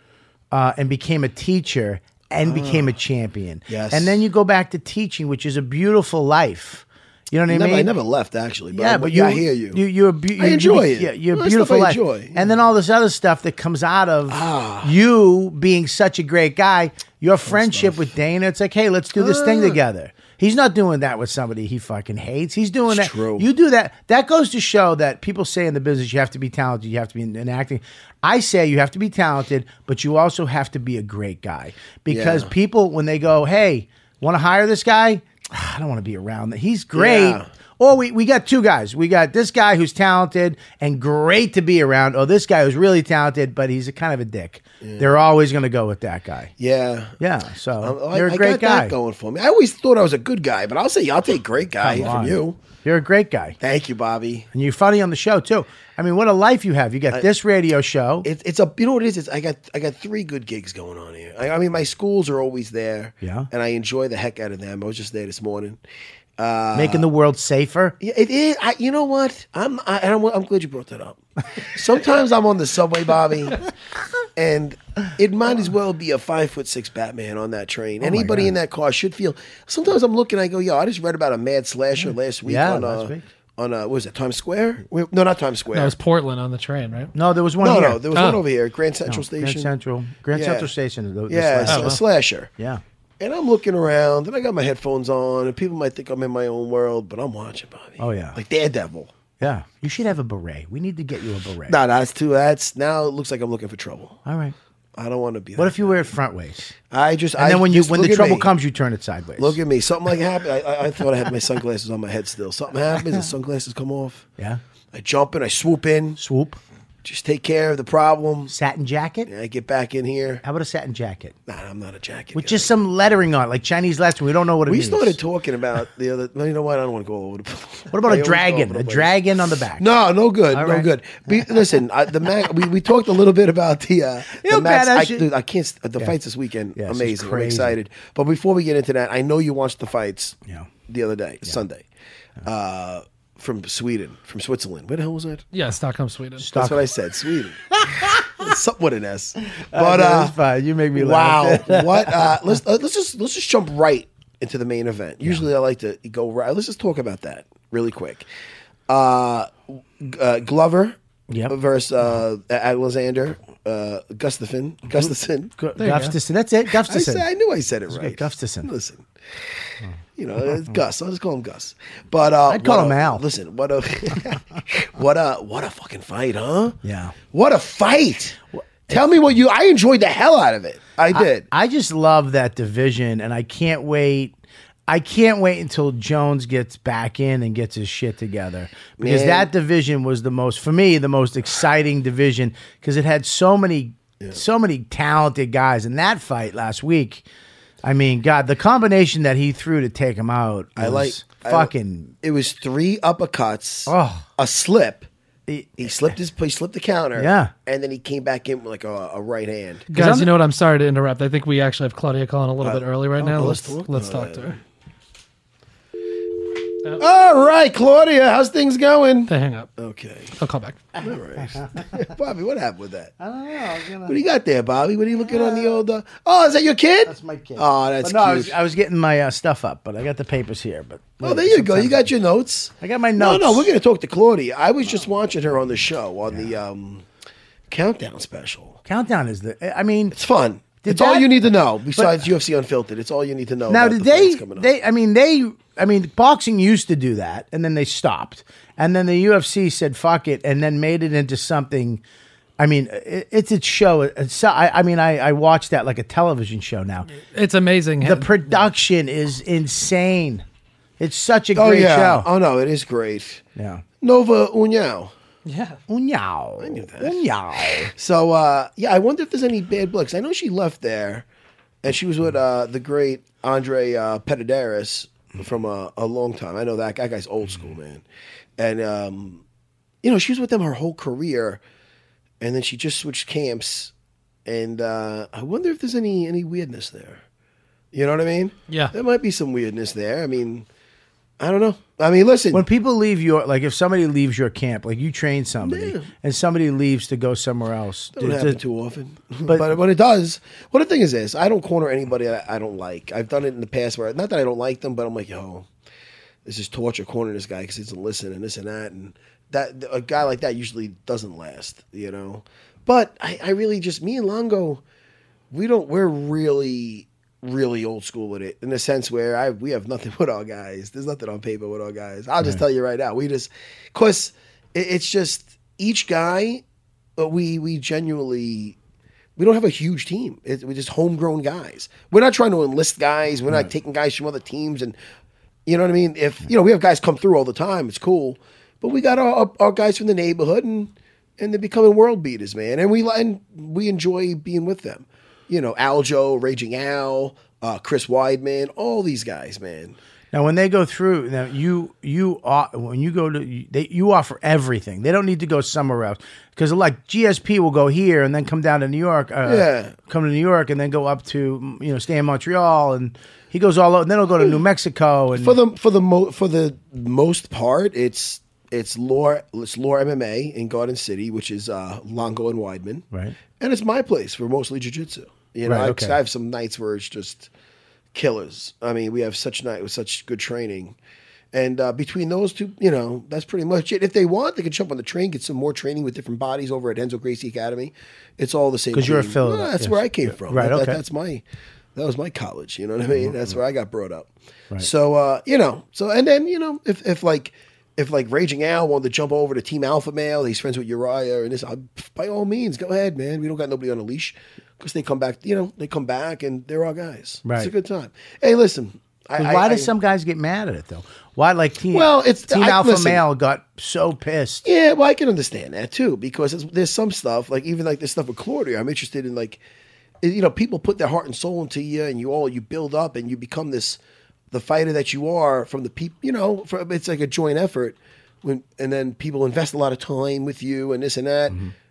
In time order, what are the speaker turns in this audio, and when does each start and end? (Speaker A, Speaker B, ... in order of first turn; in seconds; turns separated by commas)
Speaker A: 0.5-7.9, Speaker B: 2.4-2.9, Speaker B: 3.7-4.2, Speaker B: 7.5-9.8, Speaker A: 8.7-46.5, Speaker B: 10.4-12.5, Speaker B: 14.3-14.9, Speaker B: 17.4-18.1, Speaker B: 19.1-19.8, Speaker B: 22.9-23.4, Speaker B: 32.1-32.5, Speaker B: 36.9-37.5, Speaker B: 44.8-45.1, Speaker B: 46.6-47.2, Speaker A: 47.2-48.9, Speaker B: 47.8-52.6, Speaker A: 51.8-53.6, Speaker B: 53.6-54.5, Speaker A: 54.5-58.3, Speaker B: 58.2-65.8, Speaker A: 63.2-63.5, Speaker B: 66.4-67.1, Speaker A: 66.7-68.0, Speaker B: 68.0-73.7, Speaker B: 74.3-85.9, Speaker A: 78.0-78.5, Speaker A: 82.5-83.2, Speaker C: 85.7-87.1, Speaker A: 87.1-88.0, Speaker B: 87.6-89.7, Speaker C: 88.1-88.4, Speaker A: 89.1-92.0, Speaker B: 90.3-90.7, Speaker B: 91.3-92.5, Speaker C: 91.7-92.0, Speaker B: 93.2-99.1, Speaker A: 98.0-98.4, Speaker A: 99.4-101.8, Speaker B: 101.7-104.2, Speaker A: 104.2-104.5, Speaker B: 105.0-106.1, Speaker A: 105.6-106.7, Speaker B: 106.9-108.5, Speaker A: 107.4-109.6, Speaker B: 109.4-114.2, Speaker B: 114.9-116.2, Speaker A: 116.2-116.6, Speaker B: 117.0-118.5, Speaker A: 118.5-119.3, Speaker B: 119.3-120.4, Speaker A: 120.4-121.3, Speaker B: 121.5-122.7, Speaker A: 122.3-125.2, Speaker B: 124.7-129.2, Speaker A: 127.9-129.9, Speaker B: 129.8-141.8, Speaker A: 130.5-130.9, Speaker A: 134.3-135.2, Speaker A: 136.8-137.7, Speaker B: 142.4-145.4, Speaker C: 145.5-146.5, Speaker A: 146.4-146.8, Speaker B: 146.5-150.3, Speaker A: 147.9-148.2, Speaker A: 149.7-152.3, Speaker B: 150.9-158.3, Speaker B: 158.9-160.9, Speaker B: 161.5-165.5, Speaker A: 165.6-167.2, Speaker C: 165.8-166.2, Speaker B: 166.8-169.1, Speaker A: 167.9-168.7, Speaker B: 170.2-176.8, Speaker A: 172.5-173.2, Speaker A: 176.8-177.1, Speaker B: 177.3-178.4, Speaker B: 178.9-181.5, Speaker A: 181.1-184.3, Speaker A: 184.9-197.2, Speaker B: 189.0-189.5, Speaker A: 197.8-202.1, Speaker B: 200.8-201.7, Speaker B: 202.2-205.1, Speaker A: 203.9-204.2, Speaker A: 205.5-206.1, Speaker B: 205.8-209.9, Speaker A: 207.2-207.5, Speaker C: 209.9-214.6, Speaker A: 209.9-210.3, Speaker B: 212.6-214.6, Speaker A: 213.2-213.5, Speaker B: 216.9-220.3, Speaker C: 219.3-219.7, Speaker C: 220.4-220.8, Speaker B: 221.0-223.1, Speaker A: 221.4-221.9, Speaker A: 223.2-224.2, Speaker B: 224.1-228.5, Speaker A: 225.2-225.8, Speaker A: 227.1-232.1, Speaker B: 231.2-237.0, Speaker A: 232.8-233.7, Speaker B: 237.7-238.8, Speaker A: 238.8-240.2, Speaker B: 240.1-244.7, Speaker A: 240.8-242.2, Speaker A: 243.7-252.0, Speaker A: 252.6-257.1, Speaker C: 257.3-258.4, Speaker A: 258.0-260.4, Speaker A: 261.0-262.3, Speaker B: 261.5-263.4, Speaker A: 263.6-263.8, Speaker B: 264.0-265.1, Speaker C: 265.4-265.8, Speaker A: 265.9-267.9, Speaker B: 266.6-267.2, Speaker B: 267.9-271.2, Speaker B: 271.8-278.0, Speaker B: 278.6-279.4, Speaker B: 280.0-281.6, Speaker B: 282.4-283.9, Speaker B: 284.4-287.2, Speaker B: 287.9-290.6, Speaker B: 291.4-292.6, Speaker A: 292.5-298.6, Speaker B: 295.6-296.1, Speaker B: 298.2-305.7, Speaker B: 306.4-314.8, Speaker B: 315.5-326.6, Speaker B: 327.2-328.8, Speaker B: 329.4-334.9, Speaker B: 335.6-350.0, Speaker A: 350.3-365.6, Speaker B: 359.4-359.9, Speaker B: 365.3-373.0, Speaker B: 373.6-377.5, Speaker A: 375.6-376.2, Speaker B: 378.1-380.9, Speaker B: 381.5-391.4, Speaker A: 388.9-391.0, Speaker B: 391.9-409.9, Speaker A: 407.4-407.7, Speaker A: 409.4-414.6, Speaker B: 411.9-413.2, Speaker B: 414.6-419.6, Speaker B: 420.2-424.0, Speaker B: 424.5-431.6